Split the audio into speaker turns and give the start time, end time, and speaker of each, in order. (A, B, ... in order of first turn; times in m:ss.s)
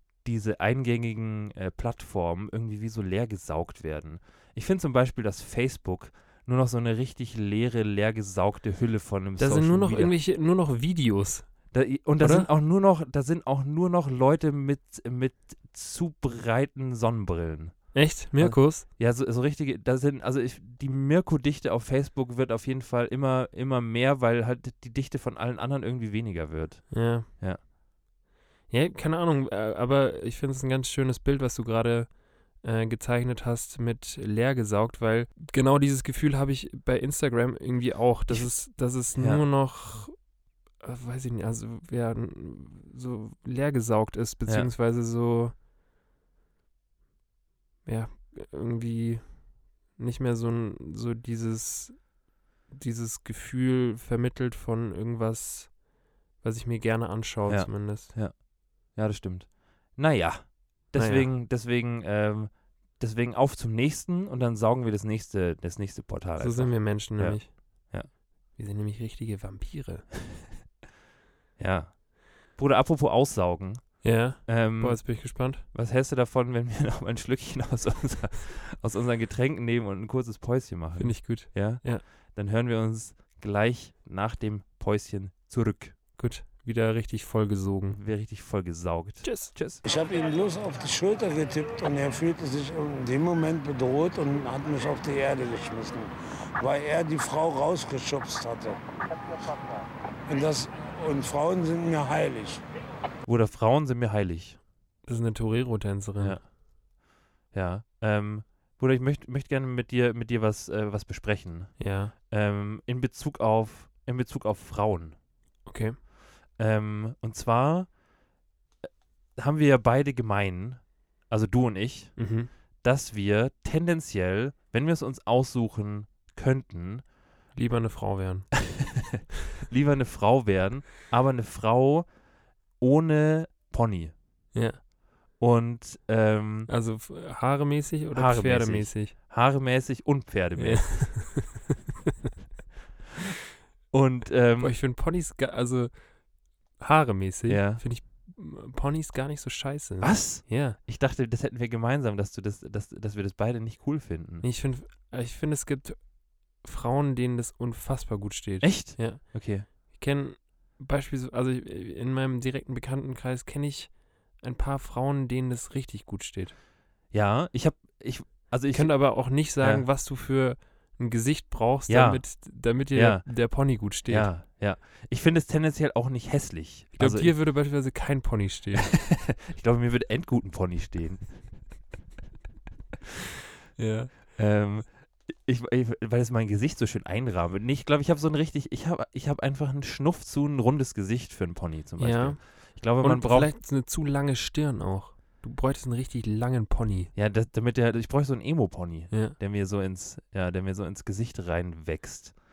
0:00.2-0:10.1 A
0:09.4-0:11.5 B
0:11.7-0:27.6 A
0:12.2-0:12.5 B
0:17.9-0:18.8 B
0:26.9-0:27.3 B
0:28.7-0:45.5 B
0:38.3-0:39.4 A
0:44.4-0:44.7 A
0:47.8-0:52.1 B
0:52.7-0:58.1 B
0:57.5-1:08.1 A
1:01.0-1:01.3 B
1:06.4-1:07.9 B
1:08.5-1:10.1 B
1:11.6-1:26.0 A
1:14.0-1:15.6 B
1:21.0-1:22.0 B
1:26.2-1:28.0 B
1:27.9-1:29.8 A
1:29.2-1:29.5 B
1:29.8-1:38.8 C
1:40.3-1:42.6 C
1:43.2-1:44.6 A
1:45.0-1:46.4 B
1:46.2-1:46.5 A
1:47.5-1:55.2 A
1:51.8-1:52.1 B
1:55.6-1:56.0 B
1:56.6-1:58.0 A
1:59.4-2:07.0 A
2:02.2-2:02.5 B
2:07.5-2:08.5 B
2:08.7-2:12.1 A
2:12.8-2:14.1 A
2:14.5-2:14.8 B
2:15.4-2:16.7 A
2:16.7-2:19.1 B
2:18.1-2:21.5 A
2:20.6-2:21.6 B
2:23.9-2:24.8 A
2:24.6-2:30.8 B
2:27.5-2:27.8 A
2:30.0-2:34.4 A
2:34.4-2:46.6 B
2:38.6-2:39.7 A
2:47.1-2:49.9 A
2:48.7-2:54.3 B
2:51.9-2:57.4 A
2:56.9-2:59.0 B
2:58.7-3:01.8 A
3:03.8-3:04.1 B
3:04.3-3:13.5 A
3:12.0-3:17.1 B
3:17.1-3:22.4 A
3:19.1-3:19.4 B